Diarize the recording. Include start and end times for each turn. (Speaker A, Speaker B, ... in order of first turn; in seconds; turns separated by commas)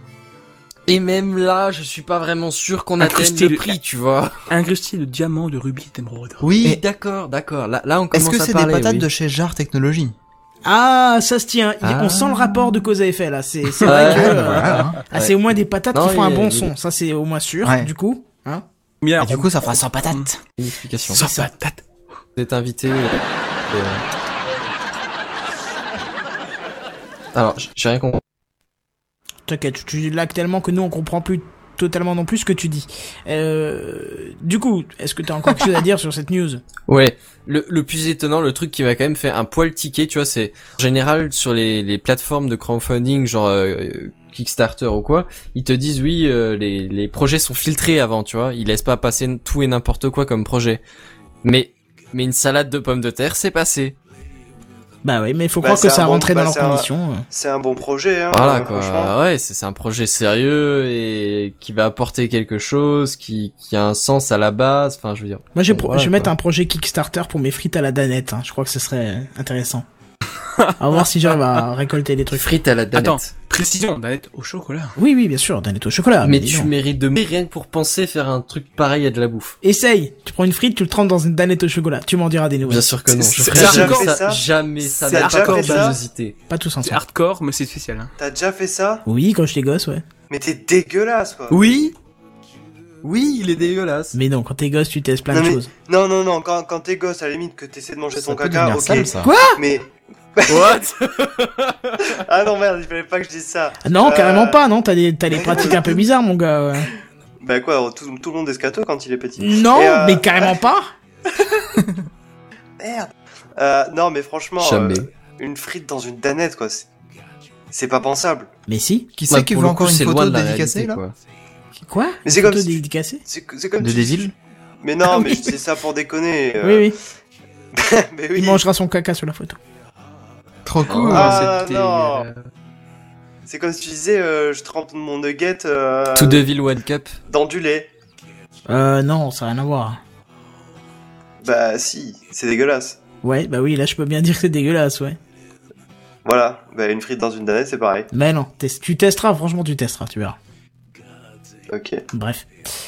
Speaker A: 0.9-4.4, Speaker B: 3.0-3.8, Speaker B: 4.5-6.5, Speaker C: 6.5-6.8, Speaker A: 6.5-9.1, Speaker C: 8.1-10.2, Speaker D: 10.7-18.6, Speaker A: 11.8-12.5, Speaker A: 13.8-15.3, Speaker C: 14.0-15.0, Speaker A: 15.9-16.7, Speaker C: 17.6-17.9, Speaker B: 19.0-19.6, Speaker C: 19.2-20.3, Speaker A: 20.6-21.2, Speaker B: 21.1-21.8, Speaker D: 21.2-21.5, Speaker A: 22.4-24.0, Speaker A: 27.3-28.2, Speaker D: 29.5-36.6, Speaker A: 36.9-50.8, Speaker A: 51.4-54.0, Speaker D: 55.0-57.3, Speaker E: 55.6-59.1, Speaker A: 58.3-66.3, Speaker D: 65.5-69.8, Speaker D: 70.8-72.5, Speaker A: 72.3-73.3, Speaker B: 72.9-74.9, Speaker D: 75.0-76.7, Speaker A: 76.2-79.6, Speaker D: 79.6-82.9, Speaker A: 82.7-86.4, Speaker B: 83.2-84.2, Speaker E: 83.4-86.0, Speaker B: 85.1-86.0, Speaker D: 86.5-87.0, Speaker B: 86.8-88.1, Speaker E: 88.2-89.0, Speaker D: 89.1-90.0, Speaker E: 90.3-91.6, Speaker A: 91.5-91.9, Speaker A: 93.0-94.1, Speaker D: 94.1-95.7, Speaker E: 95.3-100.8, Speaker C: 98.2-99.3, Speaker D: 99.2-99.6, Speaker A: 100.5-102.2, Speaker E: 102.0-104.6, Speaker D: 103.8-106.9, Speaker E: 105.3-106.1, Speaker E: 107.4-110.6, Speaker D: 109.4-110.9, Speaker E: 112.8-116.9, Speaker A: 114.6-115.1, Speaker E: 117.7-118.5, Speaker D: 118.7-119.1, Speaker C: 119.2-121.0, Speaker A: 119.3-121.1, Speaker D: 121.8-123.2, Speaker E: 122.2-126.9, Speaker C: 123.8-124.3, Speaker D: 125.1-125.5, Speaker D: 126.6-127.0, Speaker E: 127.7-128.6, Speaker D: 128.3-129.6, Speaker C: 130.7-131.5, Speaker B: 131.0-132.4, Speaker E: 131.1-132.2, Speaker E: 133.5-136.5, Speaker A: 136.2-137.1, Speaker E: 137.3-137.9, Speaker D: 138.7-140.0, Speaker E: 141.4-143.0, Speaker D: 143.2-145.2, Speaker E: 146.2-148.1, Speaker D: 148.1-150.4, Speaker E: 151.7-152.0, Speaker D: 152.1-152.5